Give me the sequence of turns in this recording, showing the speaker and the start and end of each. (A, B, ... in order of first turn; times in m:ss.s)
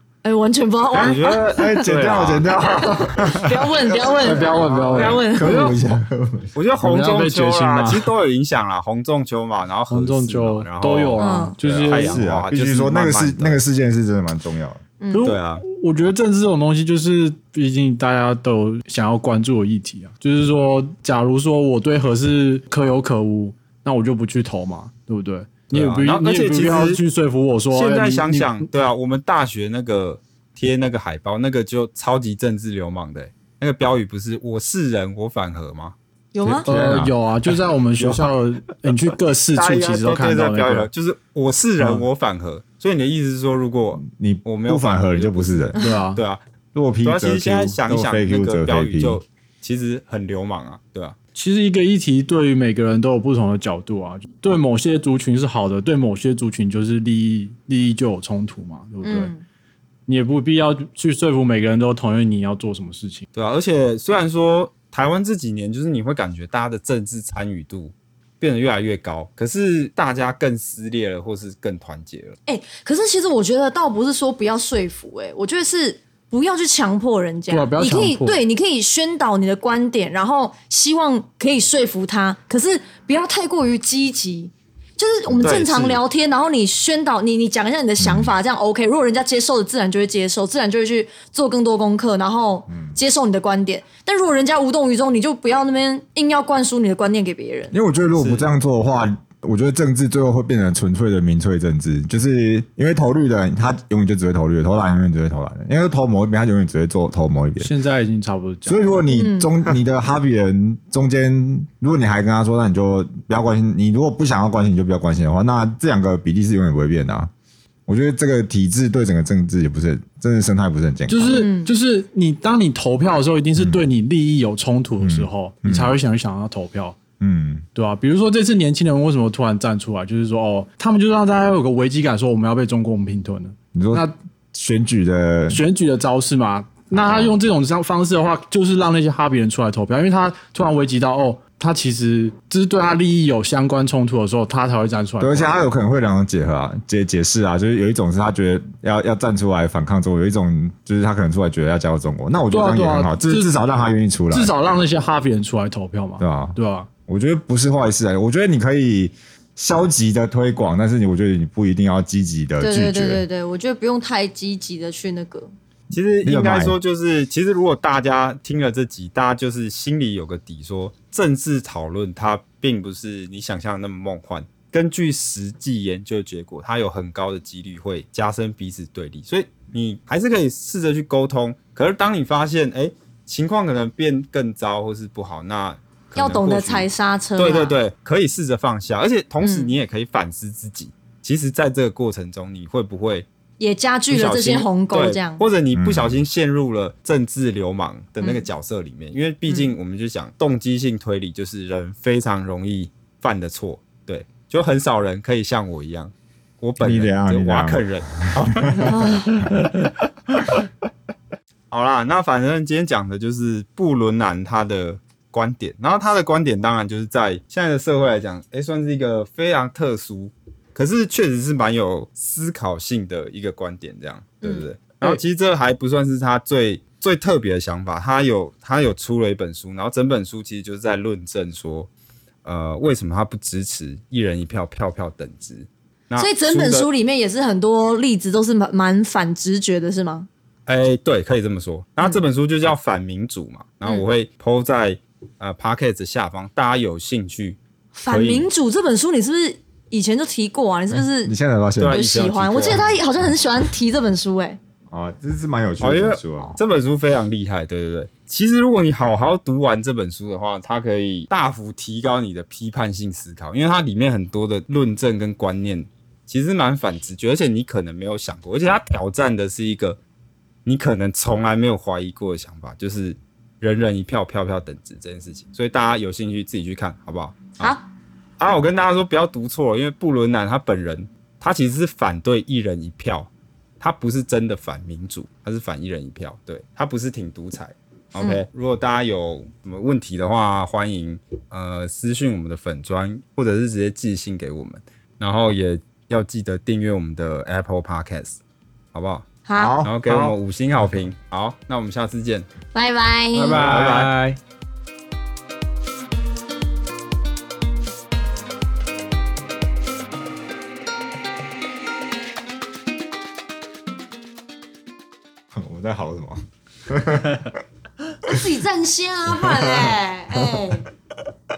0:00.2-0:01.9 A
0:00.9-0:02.5 B
0:01.6-0:06.5 C
0:02.8-0:05.6 A
0:04.2-0:05.2 D
0:05.0-0:05.8 B
0:06.6-0:13.6 B
0:06.8-0:08.1 D
0:09.9-0:12.2 D
0:11.2-0:11.6 A
0:11.9-0:14.8 C
0:15.0-0:15.3 A
0:15.1-0:28.7 D
0:15.2-0:15.6 B
0:25.7-0:27.0 B
0:27.7-0:36.0 B
0:36.3-0:36.7 A
0:36.4-0:37.1 C
0:36.6-0:40.9 D
0:39.6-0:46.4 B
0:41.8-0:42.0 D
0:44.0-0:45.8 C
0:45.8-0:46.2 D
0:46.7-0:49.2 C
0:47.0-0:51.2 B
0:51.4-0:59.3 D
0:59.0-0:59.4 A
1:00.1-1:03.3 D
1:03.3-1:12.4 B
1:12.5-1:37.8 A
1:17.5-1:18.4 D
1:25.4-1:26.0 B
1:28.0-1:28.3 C
1:32.7-1:33.0 C
1:37.7-1:47.7 C
1:38.2-1:38.5 B
1:47.6-1:49.0 D
1:48.7-1:57.3 C
1:49.1-1:49.5 A
1:57.9-2:01.2 C
2:01.1-2:07.0 D
2:01.2-2:01.7 A
2:03.6-2:03.8 C
2:05.0-2:06.0 C
2:07.2-2:07.7 C
2:07.8-2:14.1 D
2:13.7-2:15.6 C
2:15.5-2:25.6 D
2:16.9-2:17.4 C
2:25.2-2:34.5 C
2:32.5-2:33.5 D
2:34.3-2:36.9 D
2:36.2-2:43.2 C
2:42.6-2:45.5 A
2:45.9-3:13.3 B
2:46.2-2:46.8 C
3:06.2-3:07.7 A
3:09.4-3:09.8 A
3:13.6-3:15.4 A
3:14.1-3:30.6 B
3:15.7-3:16.2 C
3:26.8-3:28.9 C
3:28.9-3:29.3 A
3:31.7-3:51.9 B
3:44.4-3:45.2 A
3:52.4-3:56.9 B
3:56.2-4:00.3 A
4:00.7-4:08.5 B
4:07.9-4:11.3 A
4:10.9-4:12.1 C
4:11.8-4:12.9 B
4:11.9-4:14.6 A
4:14.9-4:16.6 C
4:15.8-4:30.0 B
4:30.6-4:37.8 B
4:38.4-4:58.4 B
4:58.9-4:59.3 B
4:59.5-4:59.8 A
4:59.6-5:00.4 C
4:59.8-5:02.5 B
5:02.7-5:03.7 A
5:03.3-5:04.4 D
5:03.6-5:04.1 B
5:03.6-5:04.1 C
5:15.5-5:17.6 C
5:18.3-5:20.9 A
5:19.3-5:20.8 C